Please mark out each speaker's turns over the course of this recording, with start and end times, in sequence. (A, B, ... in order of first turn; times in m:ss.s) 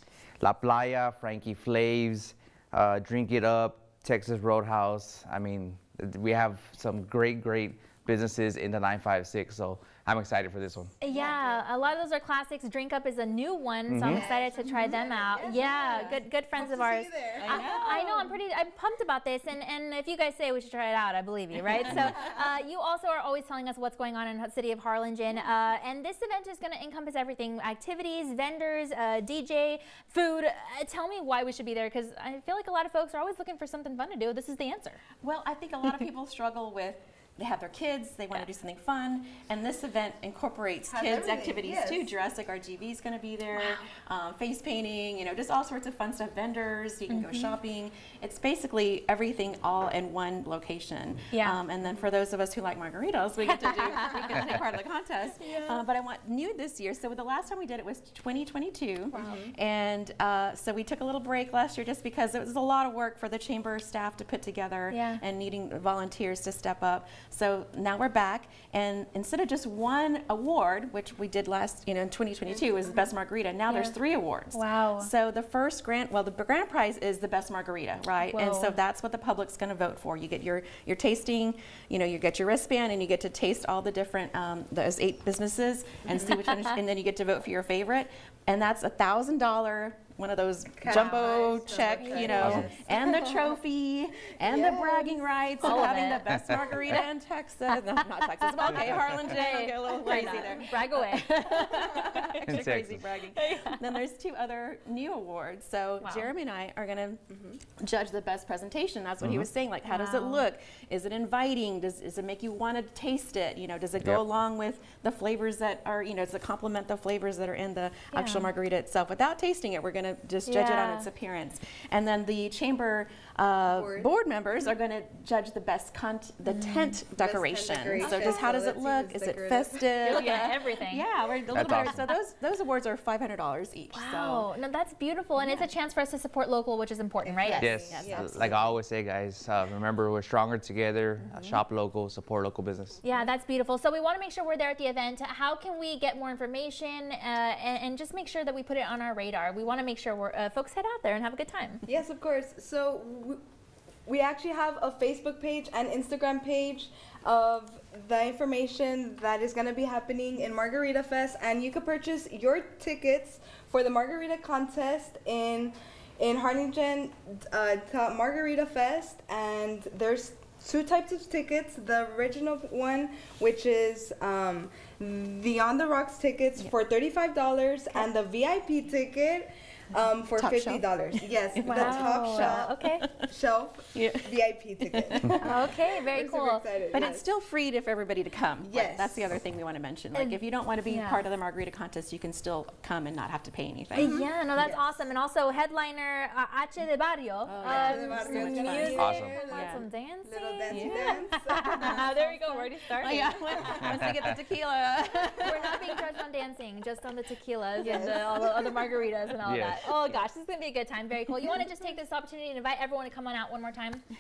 0:00.4-0:10.9 A
0:11.0-0:35.0 B
0:11.0-0:11.6 C
0:13.9-0:14.2 A
0:14.0-0:17.7 C
0:17.4-0:18.3 D
0:35.2-2:14.5 D
0:40.9-0:42.1 C
0:47.1-0:47.6 B
0:51.3-0:51.6 B
0:53.4-0:54.4 B
0:55.4-0:55.8 B
0:59.1-0:59.5 C
1:04.9-1:05.2 B
1:13.7-1:14.0 B
1:14.5-1:15.1 B
1:18.3-1:18.8 B
1:30.8-1:33.4 C
1:32.4-1:32.7 A
1:34.4-1:35.8 C
1:35.6-1:36.3 B
1:38.2-1:42.6 B
1:42.4-1:43.0 A
1:43.2-1:43.9 B
1:46.0-1:46.3 B
1:49.2-1:49.5 A
1:49.9-1:50.4 B
1:58.1-1:58.5 B
2:00.5-2:01.1 B
2:03.7-2:04.1 C
2:06.5-2:07.0 B
2:07.2-2:10.4 C
2:08.0-2:08.4 B
2:10.0-2:11.1 B
2:11.5-2:12.1 A
2:13.9-2:17.7 B
2:17.2-2:18.7 C
2:17.4-2:18.7 D
2:17.6-2:23.0 A
2:21.3-2:21.6 D
2:23.0-2:31.8 B
2:31.9-2:33.4 C
2:34.0-3:02.7 C
3:00.3-3:00.8 D
3:01.5-3:03.2 D
3:01.6-3:03.0 B
3:03.2-3:07.3 C
3:03.9-3:05.6 D
3:05.4-3:06.7 B
3:06.9-3:14.2 D
3:08.6-3:09.3 C
3:10.1-3:11.2 B
3:14.0-3:23.7 B
3:14.0-3:14.8 C
3:17.5-3:19.8 D
3:17.6-3:22.2 C
3:19.0-3:19.4 A
3:20.7-3:26.0 D
3:23.8-3:24.2 A
3:25.4-3:34.0 B
3:27.8-3:28.7 C
3:29.4-3:30.0 A